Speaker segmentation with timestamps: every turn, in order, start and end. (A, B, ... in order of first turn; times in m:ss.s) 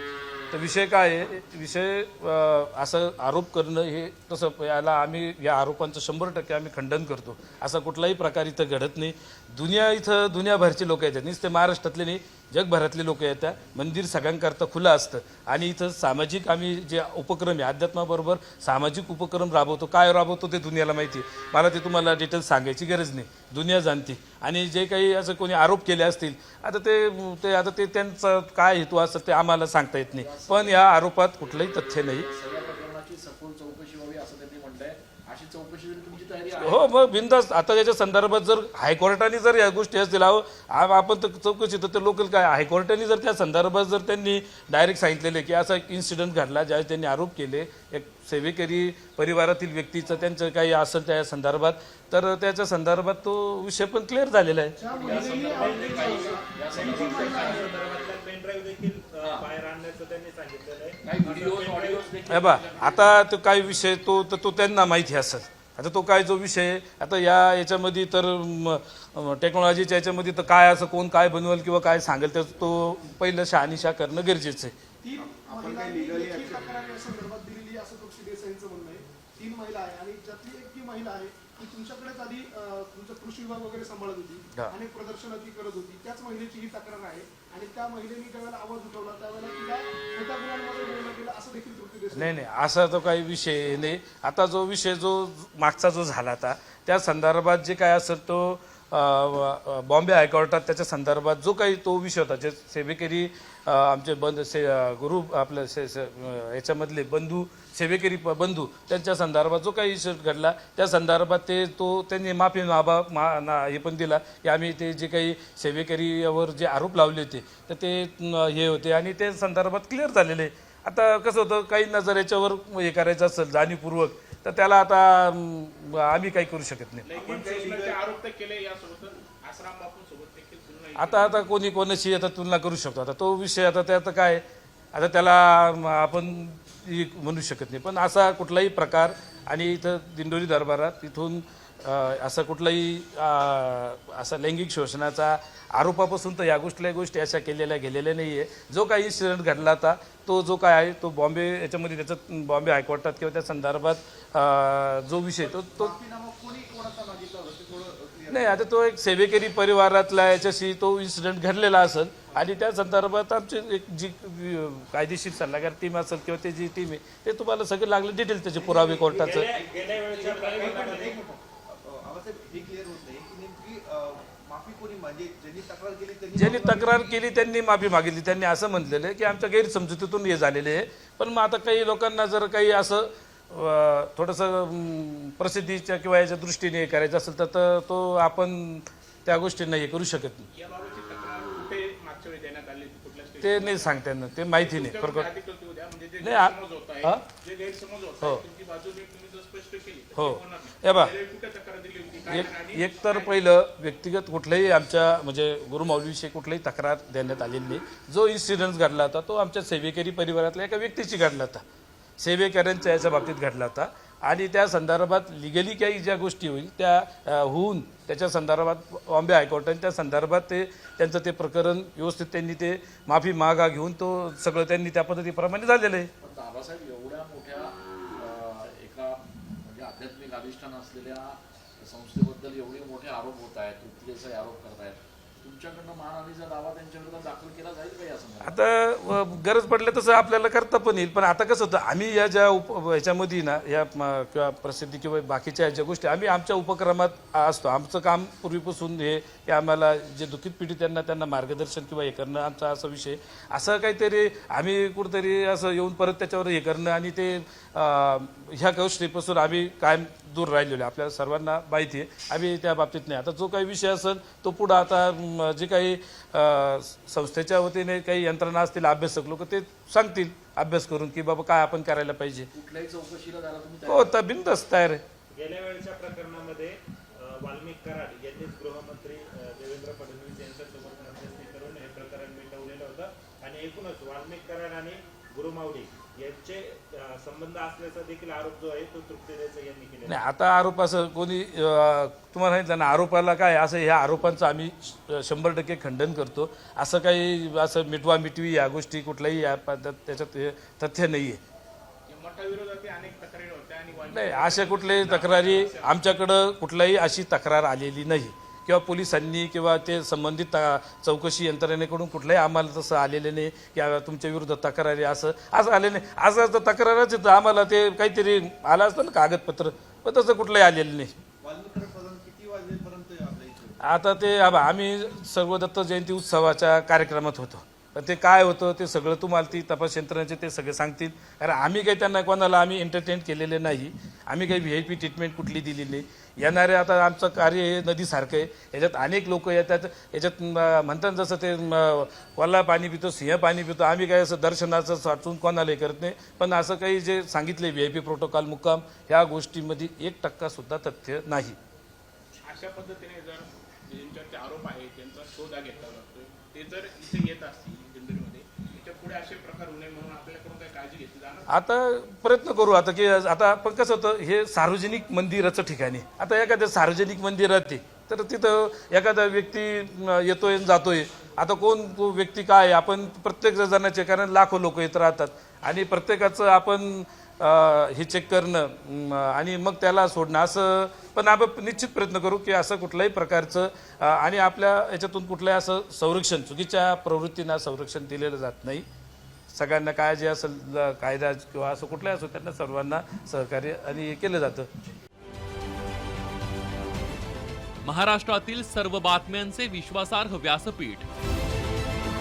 0:00.5-0:32.3 A
0:30.1-0:30.8 B
0:32.1-0:36.9 B
0:36.6-0:54.8 A
0:54.8-0:57.8 C
0:54.8-0:57.7 B
0:55.1-1:02.1 D
0:59.2-0:59.5 B
1:01.0-1:03.1 B
1:02.3-1:14.7 A
1:15.0-1:32.4 C
1:15.2-1:16.7 E
1:32.1-2:07.1 A
2:07.0-2:11.4 F
2:07.1-2:08.0 E
2:11.0-2:35.9 A
2:35.4-2:38.6 E
2:38.3-2:49.5 A
2:48.6-2:57.0 E
2:49.0-2:51.2 D
2:56.3-3:10.5 A
3:10.5-3:14.0 F
3:13.4-3:15.3 A
3:14.5-3:23.4 F
3:16.2-3:17.2 A
3:20.1-3:21.1 A
3:22.3-3:31.6 A
3:32.2-3:46.1 A
3:46.2-3:58.6 B
3:58.4-4:32.5 A
4:32.5-4:34.2 B
4:33.9-4:35.0 A
4:35.3-4:50.2 D
4:50.0-5:01.4 A
5:02.1-5:06.0 F
5:04.1-5:21.1 A
5:21.4-5:23.9 E
5:23.8-5:51.6 A
5:52.4-6:01.5 F
6:01.5-6:28.8 A
6:29.5-6:34.7 A
6:37.8-6:41.1 G